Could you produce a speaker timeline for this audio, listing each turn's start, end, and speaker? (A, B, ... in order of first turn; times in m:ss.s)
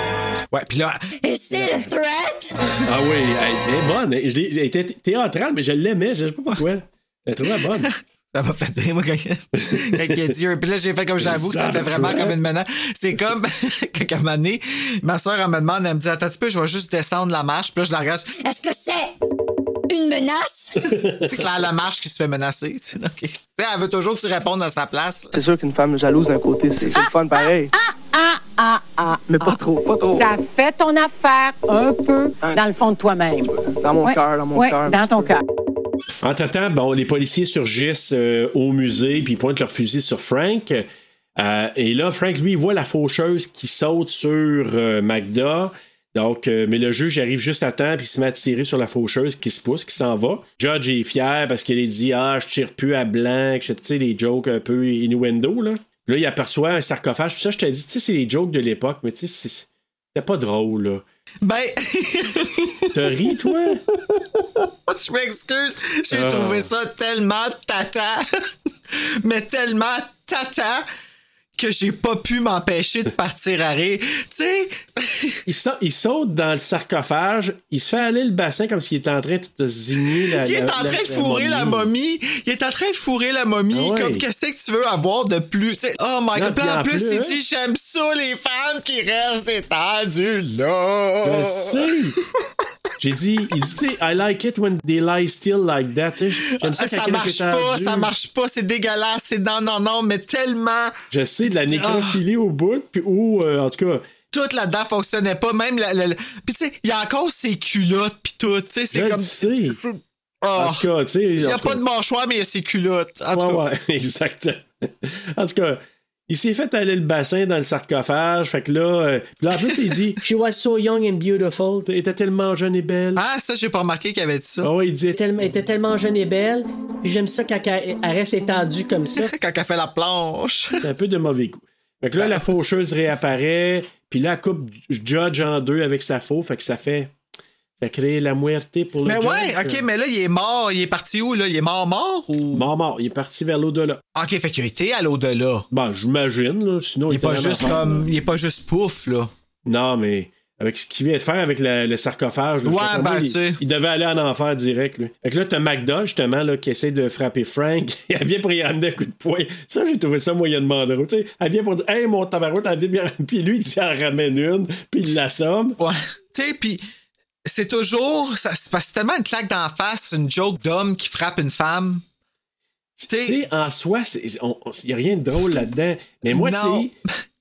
0:00.5-0:01.8 A
0:01.2-0:02.5 B
0:02.9-0:07.9 C
0:07.6-0:18.3 A
0:09.6-0:10.3 C
0:11.2-0:12.4 C
0:18.4-0:19.1 B
0:19.9-0:20.9 B
0:20.8-0:21.4 C
0:21.3-0:25.4 A
0:25.3-0:27.7 D
0:26.8-0:29.6 E
0:29.3-0:30.3 D
0:30.2-0:35.4 E
0:32.4-0:32.8 D
0:33.4-0:35.3 D
0:36.2-0:40.8 C
0:41.4-1:01.0 C
1:01.4-1:03.0 A
1:02.9-1:03.8 C
1:04.0-1:08.3 A
1:06.1-1:06.7 C
1:08.9-1:10.8 A
1:11.6-1:15.4 A
1:15.5-1:21.9 C
1:20.2-1:31.9 A
1:23.7-1:24.2 C
1:26.3-1:27.4 C
1:31.2-1:32.2 C
1:33.0-1:38.1 C
1:36.4-1:41.0 A
1:41.1-1:44.0 C
1:41.7-1:42.2 A
1:44.3-1:50.9 A
1:48.9-1:49.8 C
1:50.6-1:51.8 C
1:51.4-1:53.6 A
1:53.3-2:00.2 C
1:59.5-2:00.0 A
2:00.2-2:01.5 F
2:01.5-2:03.2 C
2:03.2-2:04.7 A
2:04.6-2:05.3 C
2:05.3-2:09.3 F
2:09.2-2:10.8 A
2:10.8-2:17.1 C
2:12.2-2:12.5 A
2:17.8-2:19.8 C
2:19.0-2:22.7 A
2:22.5-2:24.0 C
2:24.2-2:25.7 A
2:25.7-2:28.0 C
2:27.1-2:29.3 A
2:29.6-2:45.8 C
2:32.6-2:33.6 A
2:45.8-2:46.8 A
2:47.4-2:52.0 A
2:53.0-2:56.9 C
2:53.1-2:53.4 A
2:56.3-2:57.0 A